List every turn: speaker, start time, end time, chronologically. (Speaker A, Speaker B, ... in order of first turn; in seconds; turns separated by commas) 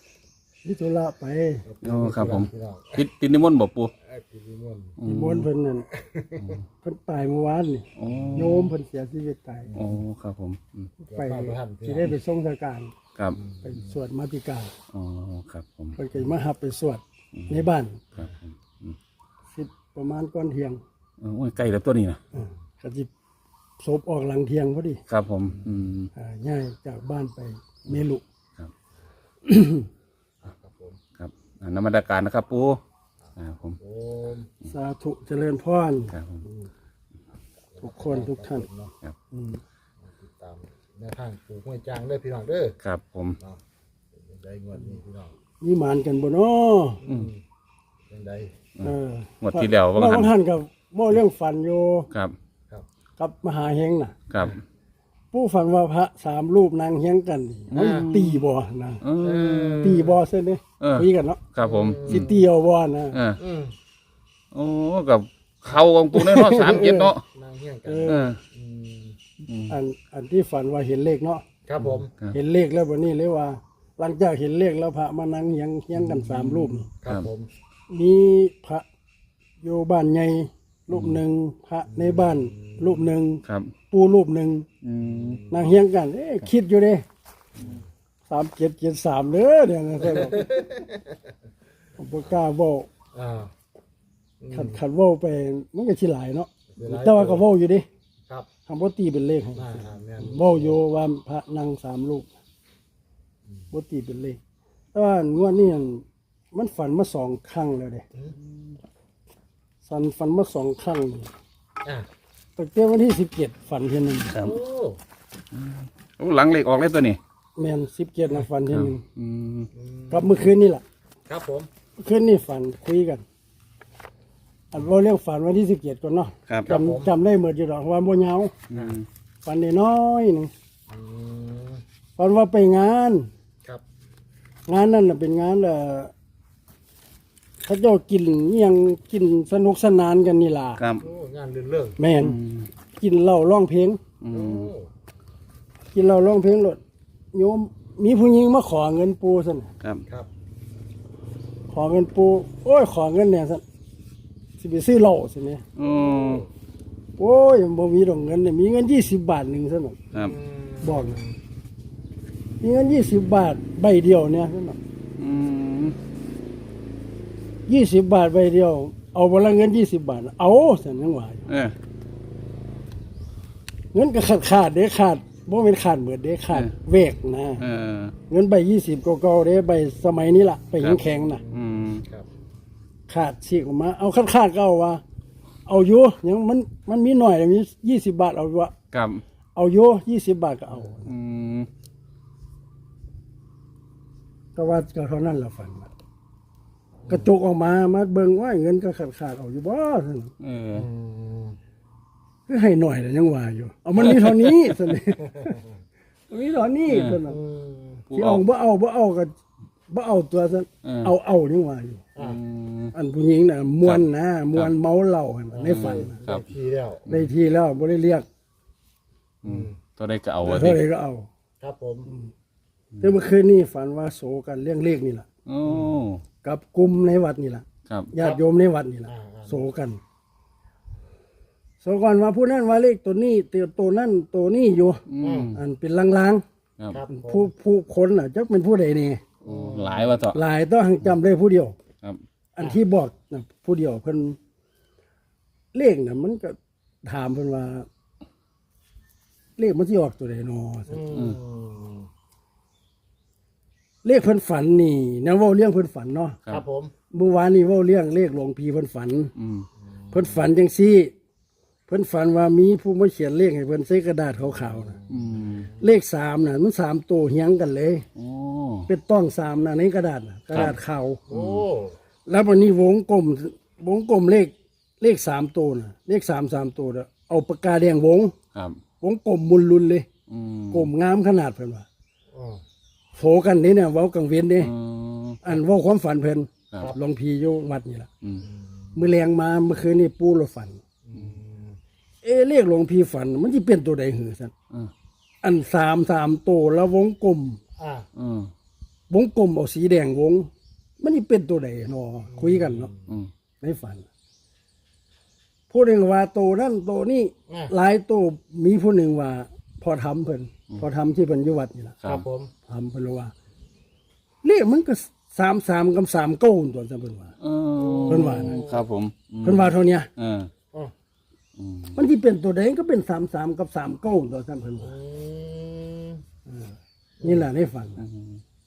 Speaker A: 0.6-1.6, Speaker B: 1.6-3.1, Speaker C: 1.8-3.9, Speaker B: 4.0-5.0, Speaker C: 5.0-5.5, Speaker A: 5.0-5.9, Speaker B: 5.9-6.5, Speaker C: 6.4-6.6, Speaker A: 6.8-9.8, Speaker C: 8.0-8.7, Speaker B: 8.1-8.5, Speaker C: 9.7-10.9, Speaker B: 11.1-12.1, Speaker A: 11.1-12.9, Speaker B: 13.4-13.9, Speaker A: 13.6-14.7, Speaker C: 14.9-16.0, Speaker A: 16.0-18.0, Speaker C: 17.4-19.0, Speaker A: 19.5-20.8, Speaker C: 21.2-22.2, Speaker A: 22.4-23.1, Speaker A: 23.8-25.0, Speaker C: 25.1-26.1, Speaker A: 26.1-28.2, Speaker A: 29.4-29.9, Speaker B: 30.4-31.0, Speaker C: 31.2-32.8, Speaker C: 33.4-33.8, Speaker B: 33.8-34.5, Speaker A: 34.7-36.7, Speaker C: 36.1-36.5, Speaker B: 37.7-38.9, Speaker A: 37.8-38.6, Speaker A: 39.3-39.6, Speaker B: 40.0-42.8, Speaker C: 42.8-43.4, Speaker B: 44.1-45.3, Speaker A: 45.6-47.0, Speaker B: 47.0-47.4, Speaker B: 48.1-48.5, Speaker C: 48.8-50.3, Speaker A: 48.8-52.1, Speaker A: 53.2-54.1, Speaker C: 54.3-54.6, Speaker A: 55.3-59.0, Speaker B: 57.7-58.1, Speaker C: 57.7-58.4, Speaker C: 59.0-60.0, Speaker B: 59.2-60.2, Speaker A: 59.8-61.4, Speaker C: 60.8-62.3, Speaker B: 61.6-62.4, Speaker A: 62.1-63.2, Speaker C: 63.1-63.4, Speaker B: 63.4-63.7, Speaker C: 64.5-67.2, Speaker A: 66.1-67.1, Speaker B: 66.5-69.2, Speaker A: 67.9-68.3, Speaker C: 68.1-68.4, Speaker C: 69.5-69.8, Speaker A: 69.7-71.5, Speaker B: 71.7-72.1, Speaker C: 71.8-72.4, Speaker A: 72.3-76.9, Speaker C: 76.0-77.3, Speaker B: 77.0-77.5, Speaker A: 77.9-78.9, Speaker A: 79.6-84.7, Speaker C: 80.9-81.2, Speaker B: 81.9-83.1, Speaker C: 83.5-83.7, Speaker C: 84.8-85.4, Speaker B: 85.0-85.8, Speaker A: 85.5-87.0, Speaker A: 88.3-90.6, Speaker B: 90.0-91.2, Speaker A: 92.0-92.9, Speaker B: 93.1-93.5, Speaker B: 94.4-94.8, Speaker A: 94.5-97.9, Speaker B: 96.7-97.5, Speaker A: 98.7-102.3, Speaker B: 99.6-100.8, Speaker A: 103.7-104.4, Speaker A: 104.9-108.0, Speaker A: 109.8-111.3, Speaker A: 112.6-114.4, Speaker C: 114.3-114.6, Speaker B: 114.4-115.0, Speaker C: 115.5-117.2, Speaker A: 117.6-119.0, Speaker C: 118.7-119.7, Speaker B: 119.7-120.4, Speaker A: 120.1-120.8, Speaker B: 121.3-121.7, Speaker A: 122.0-123.2, Speaker A: 124.7-128.6, Speaker B: 126.7-127.1, Speaker C: 128.7-129.1, Speaker B: 128.7-129.0, Speaker A: 129.4-130.5, Speaker B: 130.9-131.8, Speaker A: 132.2-133.3, Speaker A: 134.7-136.1, Speaker A: 137.6-140.8, Speaker C: 140.8-141.1, Speaker B: 141.0-142.0, Speaker A: 142.0-142.4, Speaker C: 142.2-142.7, Speaker A: 142.9-144.0, Speaker C: 144.2-144.7, Speaker B: 144.3-144.9, Speaker A: 145.9-146.8, Speaker A: 147.3-149.7, Speaker A: 151.7-153.6, Speaker A: 154.6-155.7, Speaker C: 155.8-156.5, Speaker B: 156.0-156.5, Speaker A: 157.2-160.0, Speaker B: 160.2-161.4, Speaker A: 160.8-161.2, Speaker A: 162.6-164.8, Speaker C: 165.2-166.0, Speaker A: 167.7-171.4, Speaker C: 171.5-171.8, Speaker A: 173.9-177.7, Speaker C: 176.5-176.8, Speaker C: 177.6-178.2, Speaker A: 178.3-181.4, Speaker C: 180.8-182.1, Speaker B: 181.2-182.3, Speaker A: 183.1-185.0, Speaker A: 185.7-188.7, Speaker C: 188.9-189.2, Speaker A: 189.6-191.1, Speaker C: 191.0-191.7, Speaker A: 194.6-195.9, Speaker A: 197.1-200.3, Speaker C: 200.4-200.8, Speaker B: 200.7-201.6, Speaker A: 202.5-205.6, Speaker C: 204.1-204.3, Speaker A: 206.3-207.4, Speaker C: 206.9-207.2, Speaker B: 207.3-208.1, Speaker C: 208.1-208.5, Speaker A: 208.1-209.3, Speaker A: 209.9-212.1, Speaker C: 210.8-211.1, Speaker B: 212.2-212.4, Speaker C: 212.2-212.9, Speaker A: 212.9-216.2, Speaker C: 213.8-214.7, Speaker B: 215.5-217.1, Speaker C: 215.7-216.5, Speaker C: 217.1-217.3, Speaker A: 217.1-218.3, Speaker C: 219.4-220.8, Speaker B: 219.4-219.8, Speaker A: 220.4-221.3, Speaker B: 221.6-222.1, Speaker A: 223.0-225.3, Speaker C: 225.5-226.2, Speaker A: 226.4-230.0, Speaker C: 227.9-228.1, Speaker B: 229.1-229.7, Speaker A: 231.8-236.4, Speaker C: 235.1-235.6, Speaker B: 235.2-235.6, Speaker B: 236.9-237.5, Speaker A: 237.1-239.2, Speaker B: 239.4-240.1, Speaker C: 239.4-240.4, Speaker A: 240.3-241.8, Speaker A: 242.6-244.4, Speaker A: 245.7-247.9, Speaker A: 249.6-251.2, Speaker B: 250.9-252.1, Speaker C: 251.1-251.4, Speaker A: 254.0-256.4, Speaker B: 256.5-256.9, Speaker A: 257.1-259.4, Speaker C: 259.4-259.7, Speaker B: 259.9-260.5, Speaker A: 260.1-261.1, Speaker A: 261.9-265.0, Speaker B: 264.4-265.8, Speaker C: 265.1-265.7, Speaker A: 265.8-268.1, Speaker C: 268.1-268.9, Speaker A: 268.9-271.2, Speaker B: 271.3-272.0, Speaker C: 271.3-271.7, Speaker A: 272.3-278.4, Speaker C: 278.5-278.8, Speaker A: 279.0-280.1, Speaker C: 280.3-280.9, Speaker A: 280.7-281.9, Speaker B: 282.3-282.6, Speaker A: 283.1-284.7, Speaker C: 284.6-285.6, Speaker A: 285.4-288.1, Speaker B: 288.4-289.0, Speaker A: 288.9-290.8, Speaker B: 291.1-291.8, Speaker A: 292.2-294.5, Speaker A: 295.4-297.6, Speaker B: 297.8-298.1, Speaker C: 298.1-298.5, Speaker A: 299.1-300.5, Speaker A: 301.0-302.9, Speaker B: 302.3-303.2, Speaker A: 303.6-304.1, Speaker A: 305.7-312.0, Speaker B: 312.0-312.5, Speaker A: 312.7-313.3, Speaker A: 314.4-317.3, Speaker C: 317.4-320.5, Speaker B: 317.8-318.9, Speaker A: 318.1-318.7, Speaker A: 319.4-320.1, Speaker C: 321.6-322.1, Speaker A: 321.9-324.9, Speaker B: 324.8-326.2, Speaker A: 326.5-328.1, Speaker B: 327.2-327.5, Speaker C: 328.0-328.4